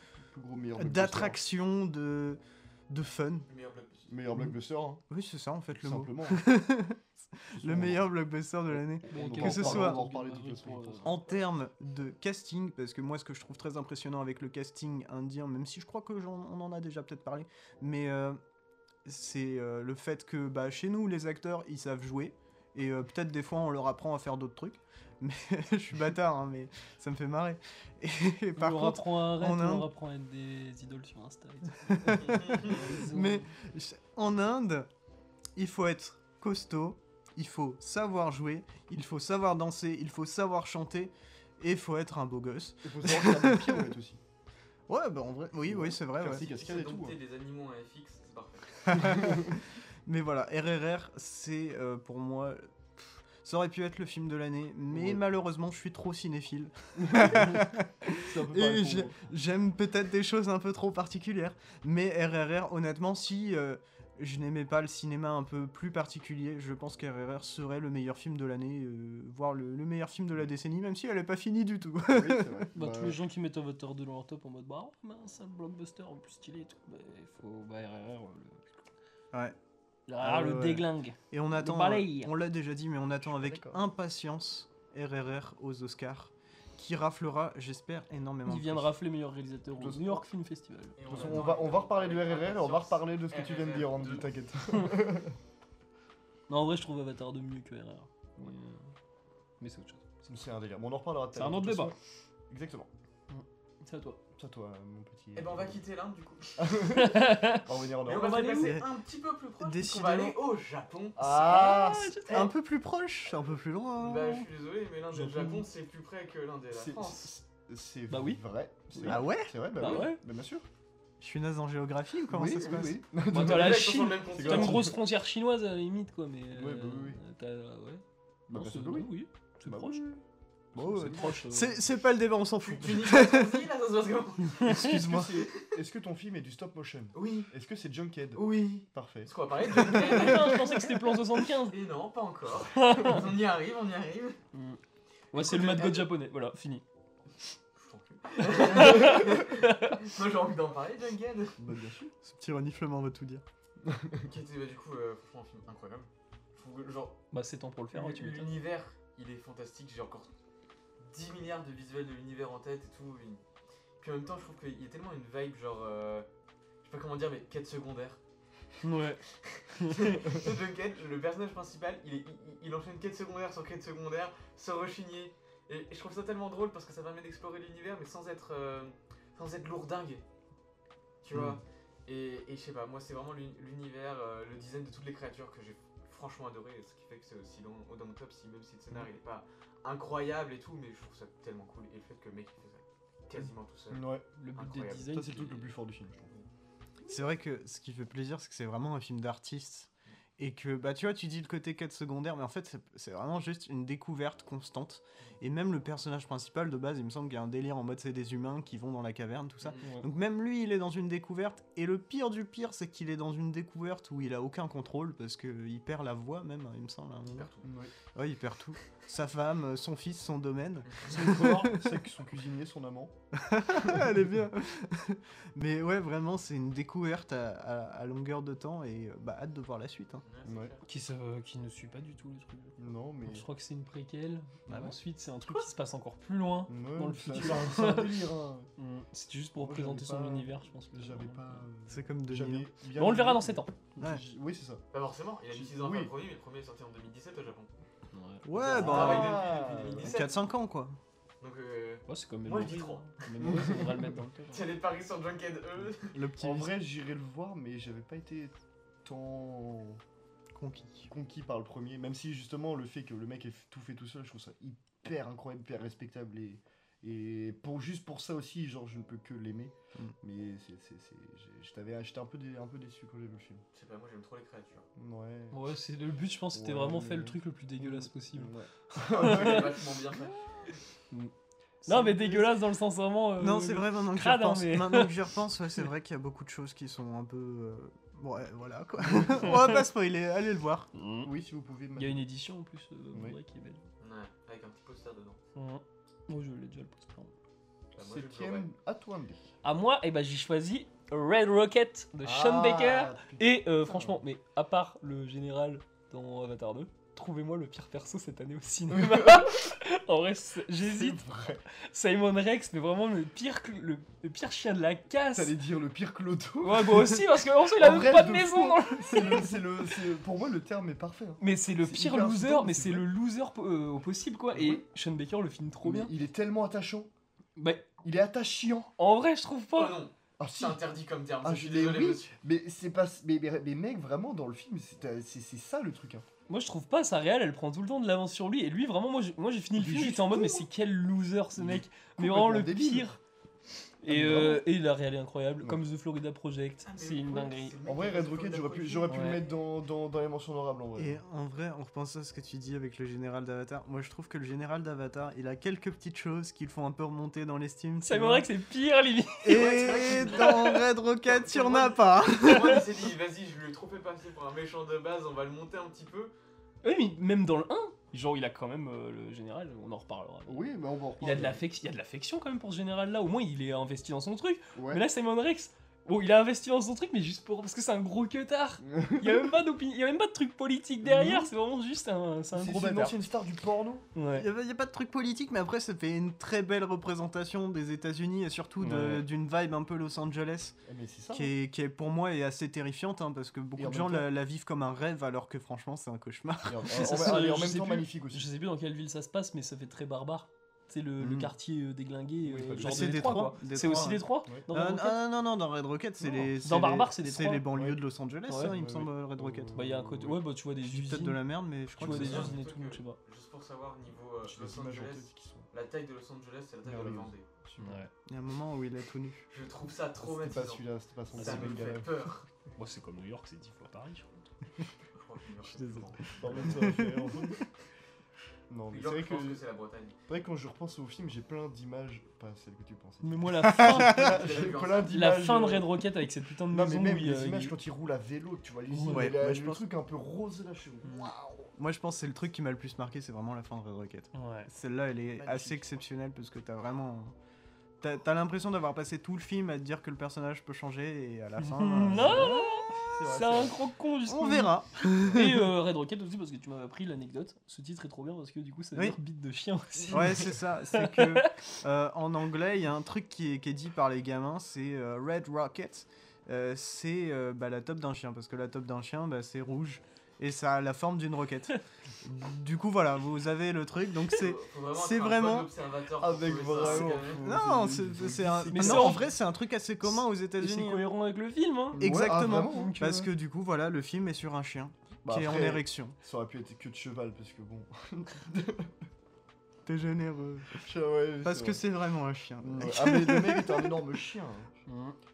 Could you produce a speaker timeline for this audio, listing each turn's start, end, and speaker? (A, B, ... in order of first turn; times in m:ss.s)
0:00.3-0:01.4 A
0:00.8-0:03.5 B
0:03.5-0:04.1 C
0:04.1-0:05.0 A
0:05.1-0:10.0 B
0:05.7-0:06.5 A
0:07.6-0:08.1 A
0:08.7-0:11.3 A
0:09.1-0:11.2 D
0:11.0-0:18.4 B
0:19.0-0:29.9 B
0:28.6-0:33.5 D
0:31.9-0:34.9 B
0:32.2-0:32.7 C
0:35.6-0:43.9 B
0:42.8-0:44.2 A
0:44.9-0:46.5 B
0:45.6-0:47.2 A
0:46.2-0:49.2 C
0:48.9-0:49.5 B
0:49.0-0:49.6 A
0:50.1-1:12.7 B
0:54.9-0:55.2 A
0:57.0-0:59.1 A
1:12.1-1:13.2 A
1:12.7-1:18.8 D
1:20.1-1:22.3 D
1:20.2-1:29.0 B
1:23.2-1:23.8 A
1:28.5-1:31.5 D
1:29.8-1:30.3 A
1:31.0-1:34.3 C
1:31.0-1:35.4 A
1:36.5-1:38.9 D
1:39.6-1:40.0 D
1:40.2-1:42.0 A
1:41.3-1:41.9 D
1:42.5-1:42.9 A
1:43.3-1:44.2 D
1:44.4-1:45.8 A
1:45.4-1:46.9 C
1:46.6-1:48.5 A
1:46.9-1:48.8 D
1:48.0-1:51.5 C
1:48.5-1:48.9 B
1:49.6-1:50.4 B
1:51.2-1:52.2 A
1:51.3-1:52.5 D
1:52.0-1:54.5 B
1:52.3-1:52.5 C
1:54.0-1:57.4 C
1:55.1-1:55.7 D
1:56.7-2:00.6 A
1:58.1-1:58.4 D
1:59.0-1:59.2 D
1:59.0-1:59.6 B
1:59.8-2:00.2 D
2:01.2-2:03.0 B
2:02.3-2:05.0 A
2:03.3-2:10.0 D
2:03.3-2:05.0 C
2:06.5-2:07.2 A
2:08.5-2:10.2 A
2:10.7-2:11.4 A
2:10.8-2:13.7 B
2:10.9-2:11.8 D
2:12.6-2:15.7 C
2:14.6-2:20.4 A
2:14.6-2:15.0 D
2:14.7-2:15.2 B
2:17.1-2:17.5 C
2:18.4-2:20.8 C
2:19.9-2:21.8 D
2:21.7-2:24.4 C
2:22.7-2:23.2 D
2:24.5-2:24.8 D
2:25.3-2:26.8 D
2:25.4-2:26.1 C
2:27.8-2:31.6 C
2:28.4-2:30.0 D
2:28.8-2:29.2 A
2:31.6-2:32.1 A
2:32.2-2:33.4 B
2:33.8-2:34.3 A
2:34.2-2:37.2 C
2:37.3-2:38.5 D
2:37.9-2:40.3 C
2:41.0-2:43.4 C
2:44.0-2:46.3 C
2:46.8-2:48.2 C
2:48.8-2:49.2 D
2:49.4-3:00.2 C
2:49.7-2:50.3 D
3:01.2-3:14.0 C
3:13.4-3:14.2 A
3:14.4-3:15.7 D
3:14.5-3:15.5 C
3:15.1-3:16.3 A
3:17.1-3:37.5 B
3:29.8-3:30.1 D
3:37.3-3:37.7 C
3:37.6-3:37.9 A
3:38.2-3:42.0 B
3:41.0-3:41.8 D
3:41.2-3:43.1 A
3:43.3-3:50.2 B
3:50.2-3:50.8 C
3:50.4-3:50.7 A
3:50.8-3:58.3 D
3:52.8-3:53.5 A
3:56.7-3:58.7 A
3:58.8-4:01.7 D
3:59.6-4:04.8 A
4:01.9-4:02.7 B
4:03.0-4:03.8 D
4:04.9-4:07.7 C
4:05.5-4:06.1 A
4:08.1-4:09.3 D
4:08.4-4:11.0 B
4:08.7-4:10.5 C
4:08.7-4:10.2 A
4:11.4-4:13.9 C
4:12.1-4:14.7 D
4:13.4-4:14.2 A
4:14.5-4:16.2 C
4:16.1-4:16.7 B
4:16.4-4:20.0 A
4:20.6-4:21.1 B
4:21.1-4:33.6 A
4:33.7-4:34.8 C
4:35.0-4:35.6 A
4:35.5-4:39.7 D
4:36.5-4:40.0 A
4:39.0-4:40.8 C
4:41.8-4:45.2 D
4:41.9-4:42.5 A
4:43.4-4:50.9 B
4:49.3-4:49.8 D
4:50.9-4:51.3 D
4:51.2-4:52.3 A
4:52.0-4:53.8 D
4:53.1-4:53.4 A
4:54.0-4:55.4 C
4:55.6-4:57.3 D
4:58.0-4:59.4 A
4:58.0-4:58.7 C
4:59.6-5:15.6 D
5:02.2-5:04.2 A
5:08.9-5:09.7 A
5:10.8-5:11.6 A
5:15.3-5:23.1 A
5:16.6-5:19.6 D
5:21.4-5:26.1 D
5:24.5-5:24.8 A
5:25.8-5:27.1 A
5:27.6-5:27.9 D
5:28.0-5:28.9 A
5:29.0-5:30.0 D
5:29.8-5:32.3 C
5:30.4-5:30.8 A
5:31.4-5:36.3 A
5:36.5-5:43.2 D
5:39.7-5:40.7 A
5:41.6-5:43.2 A
5:44.0-5:47.8 D
5:44.1-5:44.6 A
5:46.9-5:49.5 C
5:47.8-5:51.2 A
5:49.1-5:49.4 D
5:51.0-5:58.5 B
5:58.0-6:00.8 D
5:59.4-6:02.9 B
5:59.5-6:06.3 C
6:02.3-6:02.8 D
6:06.8-6:23.2 D
6:10.5-6:11.6 A
6:14.8-6:15.0 A
6:18.8-6:19.6 A
6:21.0-6:21.5 A
6:22.5-6:24.1 A
6:24.2-6:24.5 D
6:24.4-6:30.8 B
6:28.8-6:29.3 A
6:30.8-6:31.5 A
6:31.3-6:37.7 B
6:33.8-6:34.3 A
6:36.7-6:38.5 A
6:36.9-6:45.2 D
6:41.2-6:41.5 B
6:42.4-6:44.7 A
6:42.8-6:49.8 B
6:46.6-6:47.7 D
6:47.7-6:50.4 A
6:48.5-6:48.8 D
6:49.7-6:51.5 D
6:50.8-6:52.5 B
6:52.0-6:53.2 D
6:52.0-6:52.5 A
6:52.1-6:57.5 C
6:54.4-6:55.7 A
6:56.8-6:58.0 A
6:57.8-6:58.1 D
6:58.3-6:59.5 B
6:59.5-7:02.5 C
7:00.2-7:02.1 A
7:01.4-7:01.9 D
7:02.8-7:04.3 D
7:05.1-7:06.8 C
7:05.7-7:07.0 D
7:06.4-7:07.7 A
7:06.7-7:07.3 B
7:08.7-7:09.6 A
7:08.9-7:10.2 C
7:10.3-7:15.9 A
7:13.2-7:17.8 D
7:13.6-7:14.2 B
7:13.9-7:15.1 C
7:16.7-7:21.7 A
7:18.9-7:19.4 D
7:19.1-7:19.9 B
7:21.0-7:21.3 D
7:21.8-7:27.4 B
7:24.3-7:24.7 D
7:25.3-7:26.0 A
7:28.0-7:32.8 B
7:31.6-7:41.6 D
7:32.1-7:33.8 A
7:34.3-7:35.7 B
7:40.1-7:55.7 B
7:54.3-7:57.5 C
7:56.2-7:59.3 A
7:56.8-8:01.1 B
7:58.7-7:59.3 D
8:00.0-8:03.3 D
8:01.9-8:06.2 B
8:02.0-8:03.0 A
8:05.2-8:08.9 A
8:09.9-8:10.9 B
8:10.8-8:11.8 A
8:11.4-8:14.1 B
8:12.6-8:14.7 A
8:14.9-8:15.2 D